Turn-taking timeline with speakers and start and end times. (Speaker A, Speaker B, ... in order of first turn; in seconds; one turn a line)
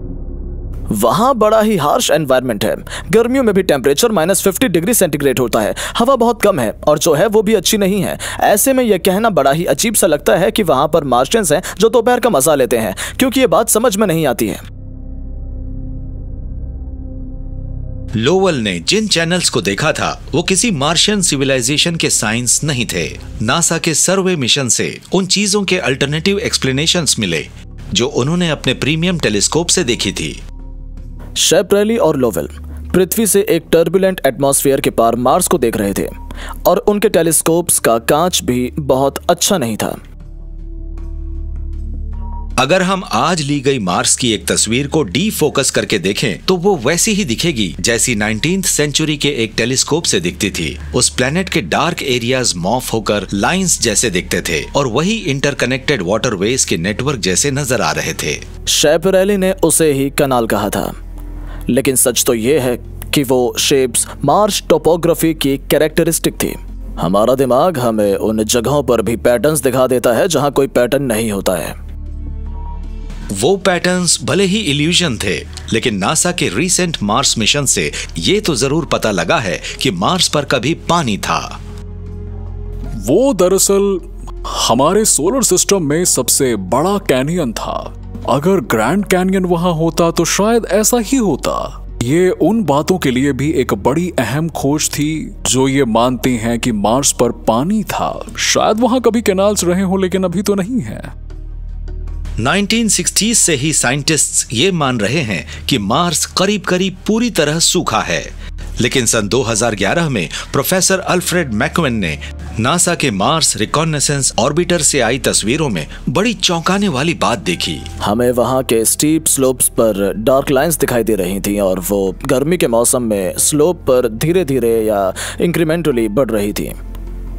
Speaker A: 0.9-14.6
Speaker B: 18.1-30.4
Speaker A: 31.4-40.0
Speaker B: 42.6-58.4
Speaker A: 58.7-60.9
Speaker A: 61.7-71.8
Speaker B: 73.3-81.6
Speaker C: 83.0-101.1
Speaker B: 102.4-117.9
Speaker A: 118.0-126.8